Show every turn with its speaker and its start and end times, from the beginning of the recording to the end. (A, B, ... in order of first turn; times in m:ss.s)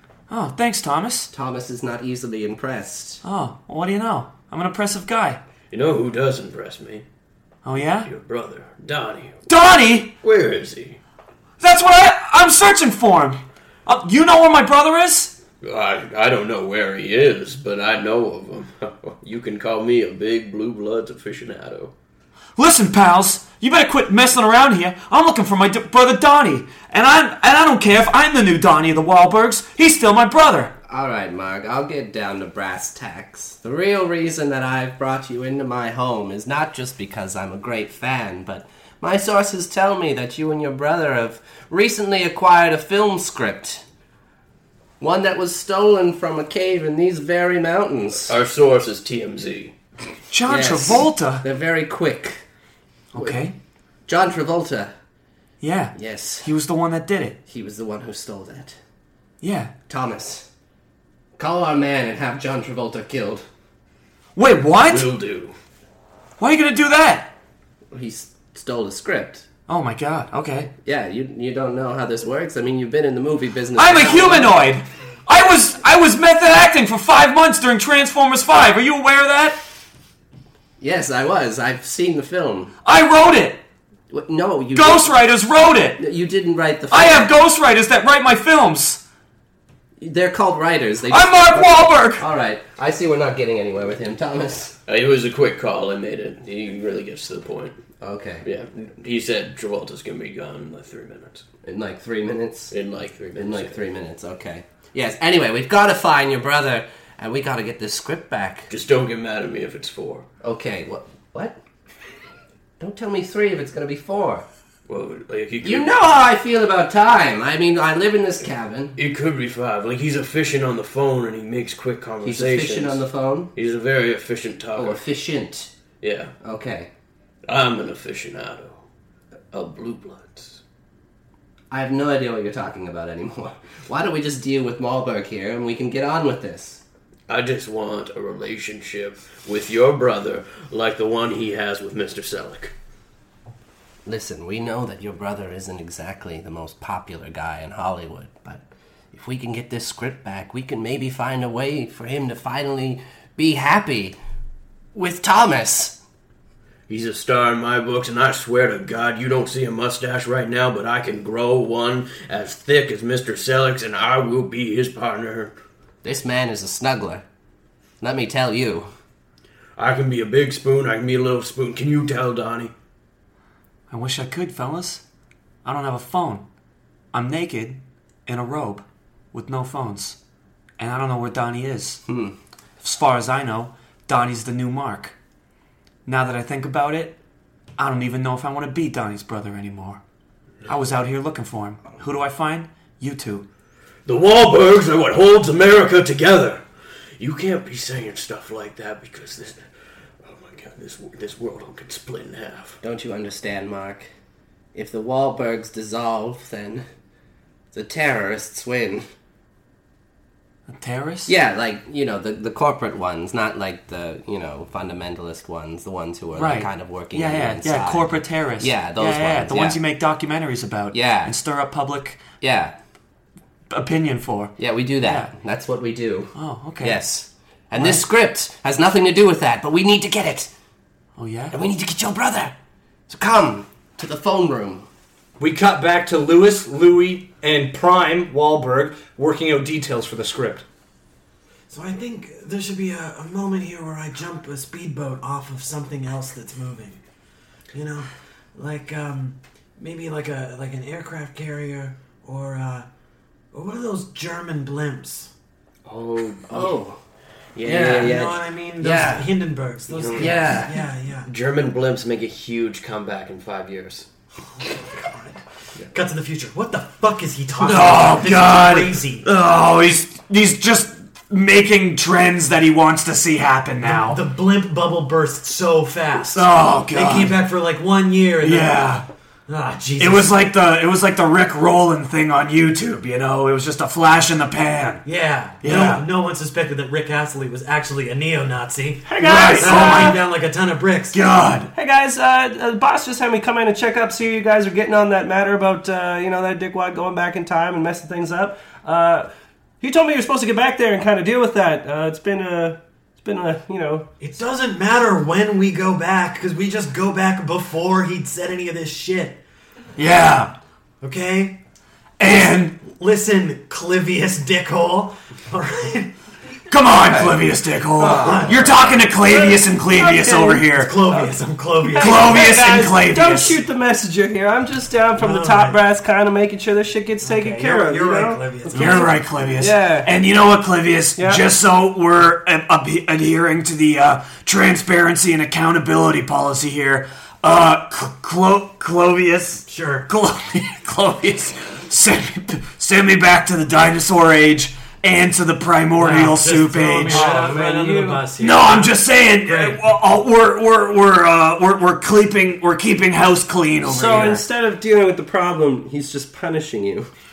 0:00.3-0:01.3 A
0:01.3-0:03.2 B
0:03.2-0:05.4 A
0:05.7-0:07.0 C
0:07.6-0:08.1 A
0:08.0-0:09.4 C
0:09.5-0:10.1 A
0:10.2-0:11.0 C
0:11.6-0:15.4 A
0:15.6-0:21.9 C
0:22.6-0:30.7 A
0:30.8-0:43.8 B
0:45.0-0:48.3 B
0:48.3-0:49.7 C
0:50.3-0:51.4 A
0:50.4-0:52.4 B
0:53.1-0:53.5 A
0:53.2-0:53.5 B
0:54.0-0:54.9 B
0:55.6-0:57.4 A
0:55.9-0:56.5 B
0:57.5-0:58.8 B
0:59.4-0:59.7 A
0:59.9-1:00.5 B
1:01.4-1:03.4 B
1:04.4-1:05.1 A
1:04.8-1:05.5 C
1:06.4-1:07.3 A
1:07.9-1:09.4 B
1:09.7-1:10.7 A
1:10.8-1:14.7 B
1:13.8-1:19.6 A
1:20.8-1:22.7 B
1:22.8-1:23.6 A
1:24.1-1:25.2 B
1:24.7-1:26.0 A
1:26.0-1:27.3 B
1:26.9-1:29.0 A
1:30.0-1:34.8 B
1:31.1-1:32.2 A
1:34.8-1:37.8 C
1:38.0-1:38.4 B
1:38.4-1:41.4 C
1:41.6-1:42.7 B
1:42.7-1:43.8 C
1:43.3-1:48.7 B
1:48.7-1:50.3 C
1:50.4-1:51.6 B
1:52.8-1:54.4 B
1:54.9-1:55.9 C
1:55.6-1:59.0 B
1:59.0-2:03.0 C
2:02.2-2:03.5 B
2:03.5-2:05.0 C
2:04.8-2:05.7 B
2:06.0-2:06.3 C
2:06.4-2:06.9 B
2:07.4-2:08.8 C
2:09.5-2:10.6 C
2:11.7-2:16.8 B
2:17.3-2:22.7 C
2:24.0-2:34.2 B
2:34.9-2:36.0 B
2:36.9-2:45.5 C
2:46.0-2:47.2 B
2:48.0-2:48.9 B
2:49.8-2:52.7 C
2:53.9-2:55.0 A
2:55.6-2:56.4 A
2:57.1-3:00.2 A
3:00.8-3:02.0 A
3:02.0-3:02.3 B
3:02.8-3:05.2 A
3:06.0-3:07.2 A
3:07.8-3:10.0 A
3:10.7-3:13.4 A
3:14.0-3:16.6 C
3:17.2-3:19.6 C
3:20.2-3:22.8 C
3:22.8-3:24.1 B
3:24.7-3:26.8 B
3:27.7-3:29.0 B
3:30.7-3:31.3 A
3:31.2-3:39.8 B
3:36.4-3:42.2 A
3:40.9-3:41.3 B
3:42.4-3:42.7 B
3:43.7-3:45.3 A
3:44.6-3:50.5 B
3:46.3-3:47.1 A
3:47.7-3:48.0 A
3:51.2-3:51.6 A
3:51.5-3:52.5 B
3:53.1-3:54.9 B
3:55.4-4:00.6 D
4:01.7-4:07.0 E
4:07.7-4:12.9 E
4:13.5-4:15.3 E
4:15.8-4:16.7 C
4:16.5-4:17.0 B
4:17.6-4:18.2 C
4:17.6-4:19.4 B
4:18.0-4:21.3 E
4:19.9-4:20.6 C
4:20.2-4:20.7 B
4:21.2-4:24.0 C
4:24.6-4:29.2 E
4:27.6-4:34.2 A
4:33.8-4:38.9 E
4:36.3-4:37.4 A
4:38.4-4:39.0 A
4:39.5-4:40.3 E
4:40.0-4:45.0 A
4:45.0-4:51.2 E
4:45.6-4:46.1 A
4:49.0-4:50.2 B
4:49.2-4:50.2 A
4:51.1-4:51.7 A
4:51.7-4:59.3 B
4:59.8-5:04.1 B
5:04.2-5:09.4 E
5:10.0-5:10.5 A
5:11.0-5:11.6 E
5:12.2-5:12.8 A
5:12.2-5:16.1 E
5:16.7-5:21.0 A
5:16.9-5:17.4 B
5:18.0-5:30.1 B
5:18.1-5:18.8 E
5:20.7-5:22.4 E
5:22.0-5:23.6 A
5:25.2-5:25.8 E
5:27.2-5:29.1 E
5:28.7-5:47.4 A
5:31.2-5:31.4 B
5:39.7-5:40.1 E
5:46.0-5:49.8 E
5:47.1-5:48.3 B
5:48.4-5:54.4 A
5:53.8-5:57.1 B